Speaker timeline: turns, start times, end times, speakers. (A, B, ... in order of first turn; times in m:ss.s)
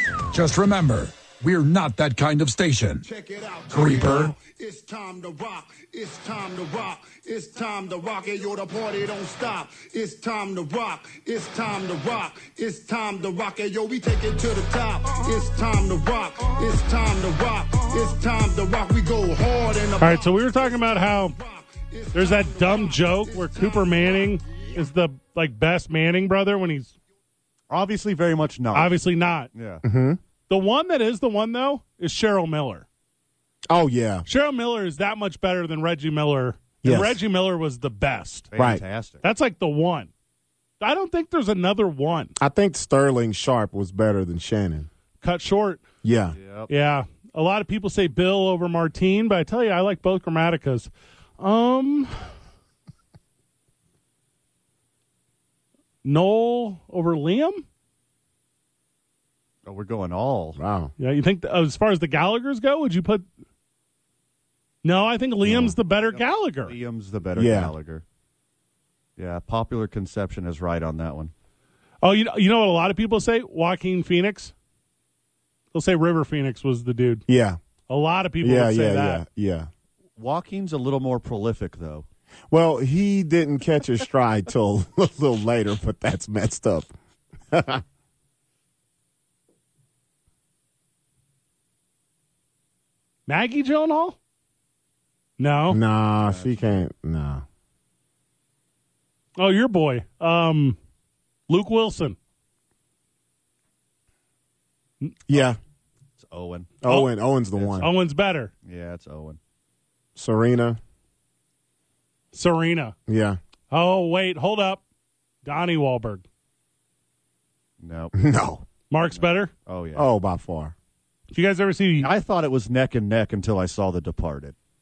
0:00.3-0:03.1 A
0:03.0-0:24.4 B
0:03.7-0:04.3 A
0:20.0-0:21.4 C
0:22.1-0:27.0 C
0:27.7-0:29.0 D
0:28.7-0:29.5 C
0:29.5-0:29.8 D
0:29.8-0:30.2 E
0:30.5-0:32.9 C
0:33.7-0:34.2 E
0:34.3-0:38.5 C
0:36.8-0:37.2 E
0:38.5-0:39.2 D
0:38.6-0:38.8 E
0:39.2-0:40.1 C
0:40.8-0:42.3 C
0:42.4-0:44.9 E
0:45.2-0:45.8 C
0:46.0-0:46.4 E
0:46.4-0:46.7 D
0:46.7-0:52.2 C
0:56.0-0:57.6 C
0:59.6-1:00.6 D
1:00.6-1:00.9 E
1:01.0-1:03.3 C
1:04.8-1:06.8 C
1:05.5-1:05.7 E
1:06.0-1:08.0 D
1:07.4-1:07.7 E
1:09.2-1:11.3 D
1:12.0-1:14.5 C
1:15.7-1:17.2 C
1:17.3-1:17.6 E
1:17.9-1:19.2 C
1:18.4-1:19.7 E
1:20.2-1:22.1 D
1:22.5-1:26.9 E
1:27.5-1:27.8 E
1:33.3-1:34.2 C
1:35.4-1:35.8 C
1:35.7-1:37.4 E
1:36.3-1:36.8 D
1:39.4-1:40.8 C
1:41.5-1:42.2 C
1:45.3-1:45.6 E
1:46.2-1:46.8 D
1:46.8-1:47.9 E
1:46.9-1:47.1 C
1:47.6-1:47.9 D
1:47.8-1:48.5 C
1:48.6-1:49.4 D
1:50.2-1:50.8 E
1:52.3-1:53.0 C
1:53.1-1:53.4 E
1:53.7-1:54.8 C
1:55.4-1:56.2 C
1:57.8-1:58.1 D
1:58.1-1:58.6 E
1:58.9-1:59.5 C
1:59.1-2:00.1 D
2:00.0-2:00.8 E
2:01.3-2:02.1 C
2:02.0-2:04.6 D